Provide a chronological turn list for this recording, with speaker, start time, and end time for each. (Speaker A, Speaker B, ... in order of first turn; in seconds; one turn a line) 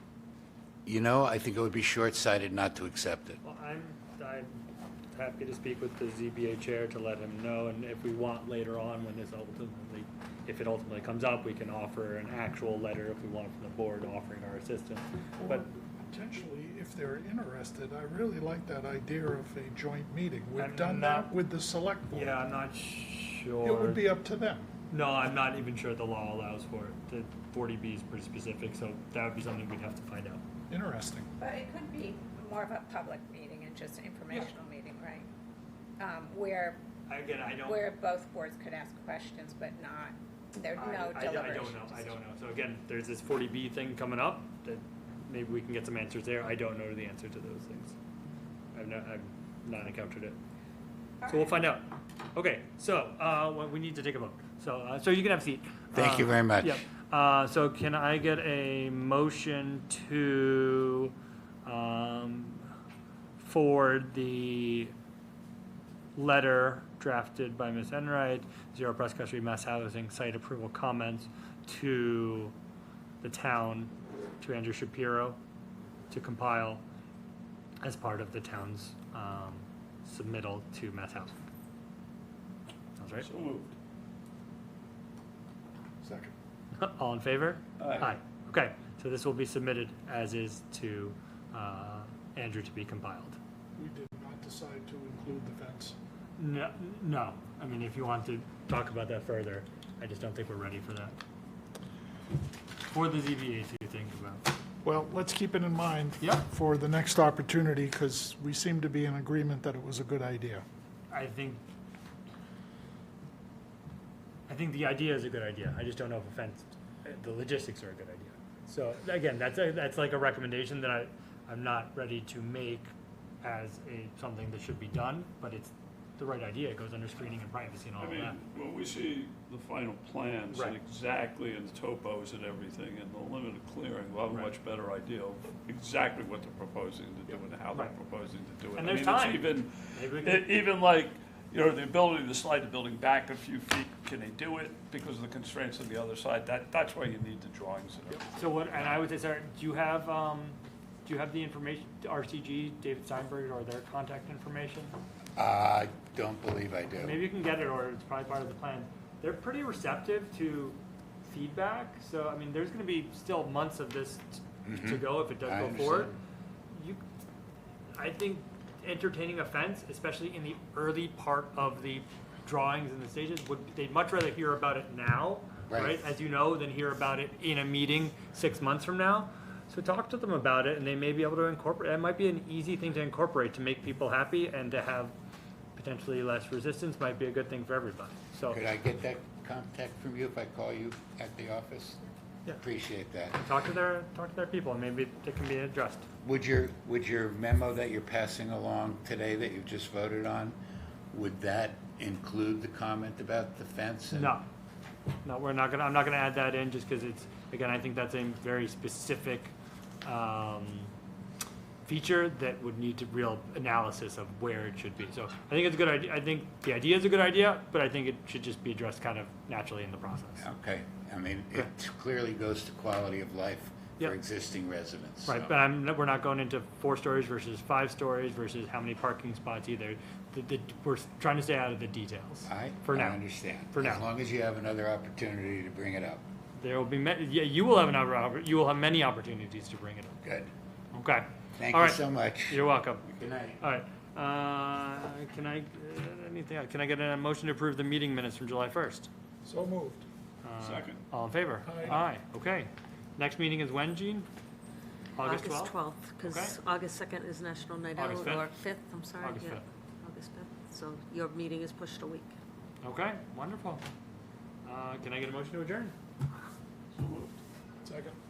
Speaker A: 0.8-3.4
Speaker B: 3.4-4.5
Speaker B: 5.1-15.7
Speaker C: 15.4-22.4
Speaker B: 20.6-21.3
Speaker B: 22.1-24.0
Speaker C: 23.6-24.7
Speaker B: 24.9-30.4
Speaker C: 30.7-31.3
Speaker D: 31.4-35.3
Speaker D: 36.0-36.8
Speaker B: 37.1-37.9
Speaker D: 37.6-42.1
Speaker B: 40.7-47.9
Speaker B: 48.7-50.4
Speaker B: 51.2-61.1
Speaker A: 55.9-56.8
Speaker B: 61.6-62.6
Speaker B: 63.4-64.9
Speaker B: 66.2-72.5
Speaker B: 73.2-75.4
Speaker B: 76.1-76.8
Speaker B: 77.8-81.3
Speaker B: 83.0-83.3
Speaker E: 83.2-83.7
Speaker C: 86.0-86.3
Speaker B: 86.7-93.4
Speaker E: 87.8-88.1
Speaker C: 93.8-96.0
Speaker B: 96.4-101.2
Speaker B: 102.9-104.4
Speaker C: 104.8-110.6
Speaker B: 106.2-106.5
Speaker B: 111.1-111.6
Speaker B: 114.5-122.9
Speaker B: 123.4-128.4
Speaker E: 128.0-148.3
Speaker B: 138.7-140.5
Speaker B: 148.2-154.9
Speaker A: 155.3-157.2
Speaker B: 156.9-166.2
Speaker A: 164.7-166.2
Speaker B: 166.7-167.0
Speaker B: 167.9-185.1
Speaker A: 175.7-176.0
Speaker B: 185.7-188.6
Speaker A: 188.5-192.1
Speaker A: 192.6-193.4
Speaker B: 193.4-196.1
Speaker A: 196.2-200.6
Speaker A: 201.1-204.4
Speaker B: 204.1-204.4
Speaker B: 205.2-210.9
Speaker B: 211.8-220.5
Speaker A: 220.4-225.5
Speaker B: 225.2-234.1
Speaker A: 232.5-236.2
Speaker B: 236.6-240.2
Speaker A: 240.2-240.5
Speaker B: 240.9-243.1
Speaker A: 241.6-242.6
Speaker A: 243.2-243.6
Speaker B: 243.6-249.1
Speaker C: 249.4-250.0
Speaker B: 250.4-254.3
Speaker E: 250.6-251.0
Speaker C: 251.6-252.0
Speaker B: 255.2-256.6
Speaker F: 255.2-262.3
Speaker B: 257.9-258.5
Speaker B: 259.2-259.6
Speaker B: 262.8-263.8
Speaker B: 264.6-265.9
Speaker E: 266.9-267.4
Speaker C: 267.8-268.1